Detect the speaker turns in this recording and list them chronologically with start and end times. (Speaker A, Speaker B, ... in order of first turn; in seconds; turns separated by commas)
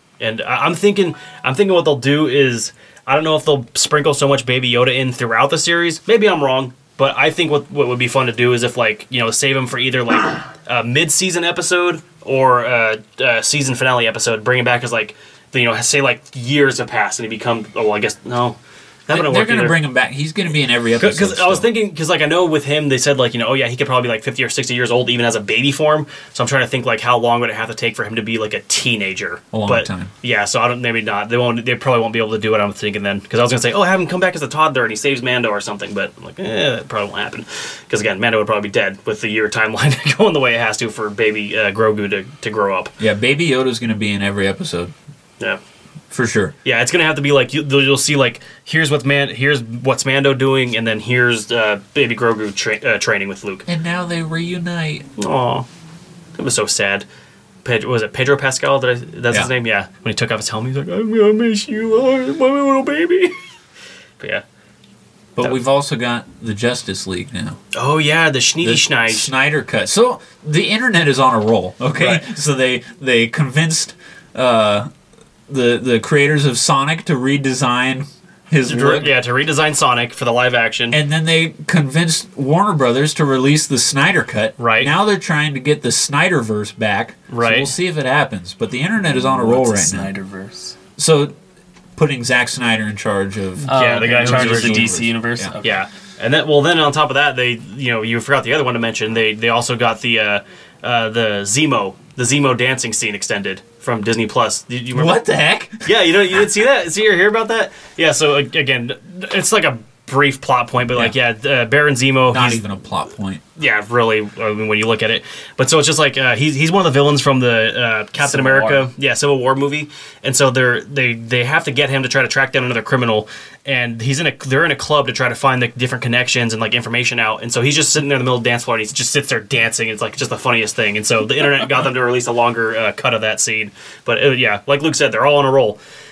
Speaker A: 0.2-19.8, Speaker B: 19.1-21.7, Speaker A: 21.0-42.9, Speaker B: 29.5-30.1, Speaker B: 43.0-44.9, Speaker B: 46.1-46.5, Speaker A: 46.6-53.6, Speaker B: 53.7-55.1, Speaker A: 55.2-55.6, Speaker A: 56.4-57.0, Speaker A: 57.6-63.3, Speaker B: 65.4-67.6, Speaker A: 67.7-69.3, Speaker B: 68.6-74.9, Speaker A: 72.0-72.2, Speaker B: 75.5-79.1, Speaker A: 78.6-81.0, Speaker B: 80.9-90.1, Speaker A: 84.6-84.9, Speaker A: 87.3-87.7, Speaker C: 89.1-90.8, Speaker B: 91.0-91.3, Speaker B: 92.0-95.5, Speaker A: 93.7-95.0, Speaker C: 93.7-95.8, Speaker A: 95.6-105.2, Speaker B: 104.9-105.9, Speaker A: 105.8-112.6, Speaker B: 110.9-111.2, Speaker B: 112.3-113.4, Speaker A: 113.6-135.8, Speaker C: 118.2-118.9